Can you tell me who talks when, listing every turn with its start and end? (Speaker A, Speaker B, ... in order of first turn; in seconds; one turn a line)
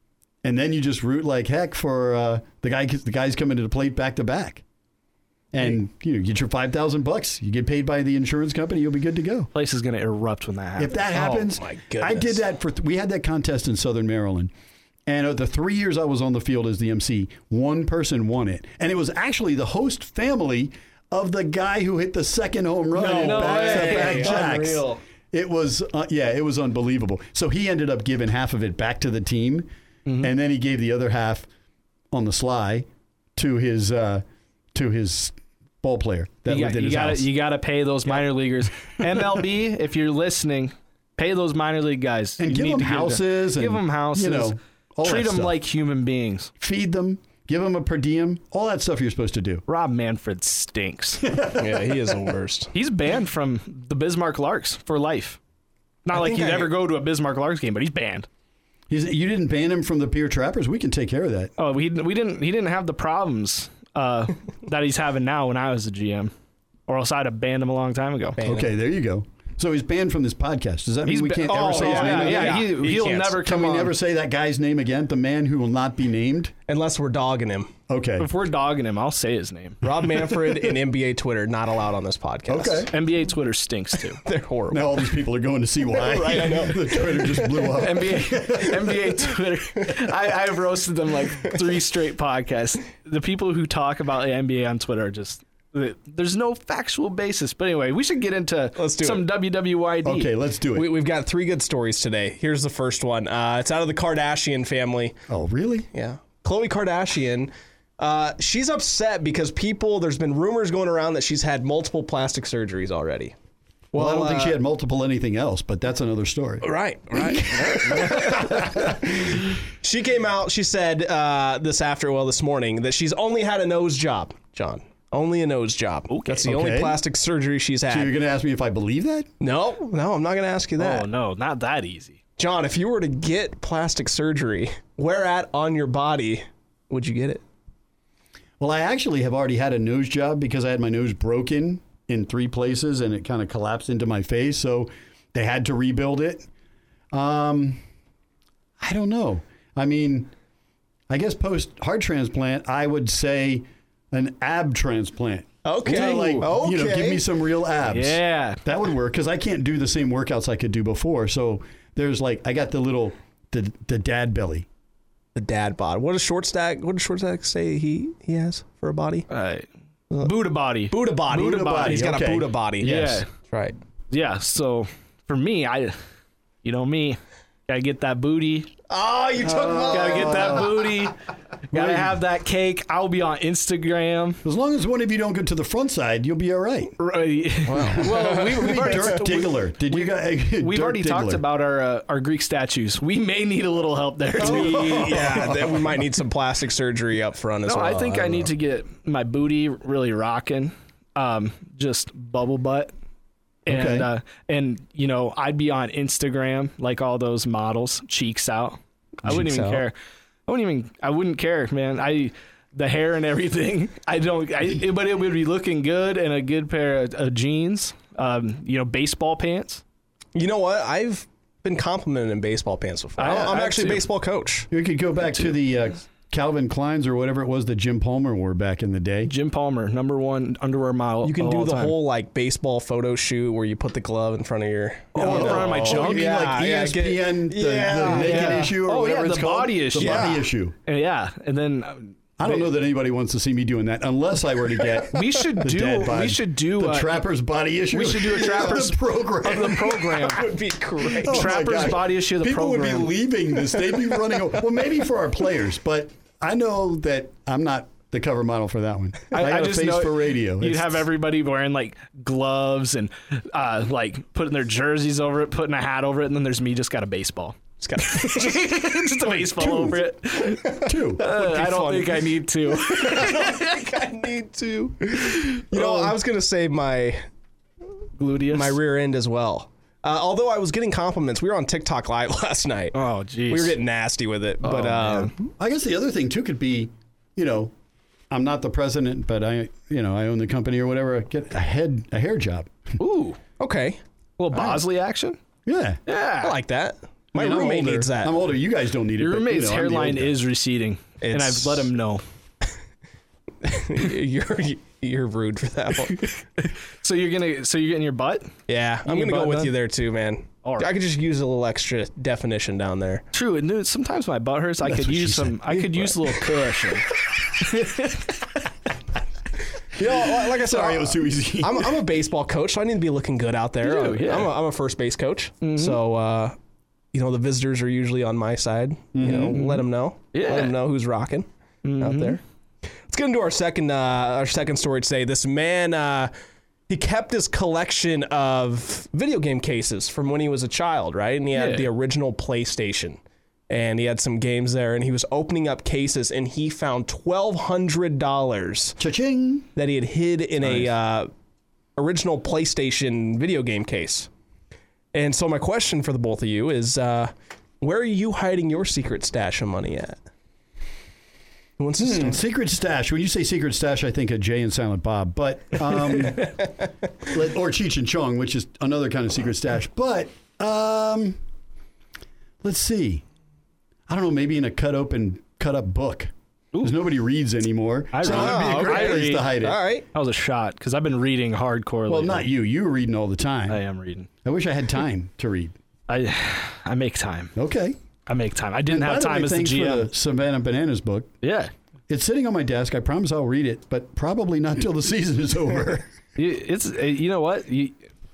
Speaker A: 0.4-4.6
Speaker A: 5.5-9.5
Speaker B: 9.5-11.0
Speaker A: 10.8-14.5
Speaker C: 11.1-12.4
Speaker A: 15.1-29.7
Speaker C: 22.9-25.0
Speaker B: 23.0-24.9
Speaker B: 30.1-30.3
Speaker A: 30.2-31.5
Speaker A: 32.1-37.3
Speaker B: 36.5-46.5
Speaker A: 42.4-45.5
Speaker A: 46.6-49.6
Speaker B: 49.7-51.2
Speaker A: 51.2-52.1
Speaker C: 51.6-52.7
Speaker B: 52.7-55.4
Speaker B: 56.0-58.3
Speaker C: 56.1-56.7
Speaker A: 58.9-61.5
Speaker B: 61.6-66.3
Speaker B: 66.9-68.4
Speaker C: 68.4-68.7
Speaker A: 68.4-72.6
Speaker B: 71.0-73.9
Speaker C: 71.5-73.4
Speaker A: 73.4-76.5
Speaker C: 76.7-77.7
Speaker A: 77.9-78.3
Speaker B: 78.2-79.8
Speaker C: 79.8-82.9
Speaker A: 82.5-82.9
Speaker B: 82.9-84.2
Speaker C: 84.2-85.0
Speaker A: 84.7-88.9
Speaker C: 85.9-87.6
Speaker B: 87.7-100.3
Speaker C: 98.8-99.2
Speaker A: 100.0-100.9
Speaker C: 100.7-105.2
Speaker A: 105.3-105.9
Speaker C: 105.9-113.3
Speaker C: 113.9-114.6
Speaker A: 113.9-119.4
Speaker C: 116.6-128.1
Speaker B: 126.1-126.4
Speaker A: 126.4-127.0
Speaker A: 127.9-129.3
Speaker C: 129.4-131.1
Speaker B: 130.8-132.2
Speaker C: 132.4-137.4
Speaker A: 138.6-146.5
Speaker A: 147.1-147.8
Speaker A: 148.8-150.3
Speaker A: 151.1-164.7
Speaker C: 155.6-157.2
Speaker B: 155.8-156.4
Speaker B: 157.8-158.6
Speaker C: 165.3-169.3
Speaker B: 169.3-169.7
Speaker B: 170.2-172.1
Speaker C: 170.9-173.8
Speaker A: 171.3-173.2
Speaker B: 172.8-173.2
Speaker B: 174.1-176.0
Speaker B: 176.6-178.7
Speaker C: 178.9-180.8
Speaker A: 179.4-180.8
Speaker B: 179.9-181.2
Speaker B: 181.7-184.4
Speaker A: 181.7-182.2
Speaker A: 184.4-186.9
Speaker B: 187.0-195.5
Speaker C: 187.7-189.1
Speaker A: 187.7-191.4
Speaker C: 194.4-198.5
Speaker A: 194.4-195.9
Speaker B: 197.7-202.9
Speaker A: 203.7-204.1
Speaker B: 203.7-209.9
Speaker C: 209.2-209.8
Speaker B: 210.5-219.8
Speaker C: 220.3-224.7
Speaker B: 223.2-224.0
Speaker A: 223.2-223.7
Speaker A: 224.7-229.3
Speaker B: 229.2-231.9
Speaker C: 231.2-238.8
Speaker B: 235.1-236.4
Speaker A: 235.2-240.7
Speaker B: 237.9-242.7
Speaker C: 239.9-240.4
Speaker A: 242.4-250.3
Speaker B: 245.1-247.2
Speaker B: 247.9-250.5
Speaker C: 250.0-251.9
Speaker B: 251.1-253.1
Speaker A: 251.2-261.0
Speaker B: 259.3-273.8
Speaker C: 267.8-268.9
Speaker A: 269.5-270.0
Speaker C: 270.4-277.2
Speaker A: 270.9-271.2
Speaker A: 275.7-276.1
Speaker B: 278.1-278.8
Speaker C: 278.5-282.9
Speaker B: 282.9-283.8
Speaker C: 283.5-285.5
Speaker B: 284.6-285.3
Speaker A: 285.6-287.7
Speaker A: 288.3-292.7
Speaker B: 293.0-293.4
Speaker C: 293.6-294.0
Speaker B: 294.4-295.4
Speaker A: 295.6-296.0
Speaker B: 296.1-296.6
Speaker C: 296.4-298.4
Speaker A: 297.3-300.3
Speaker B: 299.2-302.2
Speaker C: 301.2-301.9
Speaker C: 303.6-306.3
Speaker B: 306.6-309.7
Speaker C: 308.7-313.2
Speaker B: 310.6-310.9
Speaker B: 313.3-318.4
Speaker A: 314.8-315.6
Speaker C: 319.9-326.6
Speaker A: 320.0-322.0
Speaker B: 323.8-324.5
Speaker B: 325.6-326.0
Speaker C: 327.1-331.5
Speaker A: 329.1-329.6
Speaker B: 329.5-330.7
Speaker B: 331.8-332.4
Speaker C: 332.0-332.4
Speaker C: 333.1-336.3
Speaker C: 336.9-349.0
Speaker B: 341.5-341.9
Speaker A: 349.0-349.7
Speaker C: 349.8-351.3
Speaker C: 351.9-354.3
Speaker C: 355.1-360.2
Speaker C: 361.8-362.4
Speaker A: 362.0-366.6
Speaker C: 366.4-366.8
Speaker A: 367.2-371.4
Speaker A: 372.6-373.2
Speaker A: 374.1-379.8
Speaker B: 378.1-379.5
Speaker C: 378.2-380.1
Speaker B: 380.1-382.4
Speaker A: 382.1-383.8
Speaker B: 383.7-384.3
Speaker A: 384.4-385.7
Speaker B: 386.1-387.5
Speaker A: 387.6-388.0
Speaker B: 388.3-390.1
Speaker A: 388.9-391.3
Speaker B: 391.4-391.7
Speaker A: 392.1-396.1
Speaker B: 396.4-398.0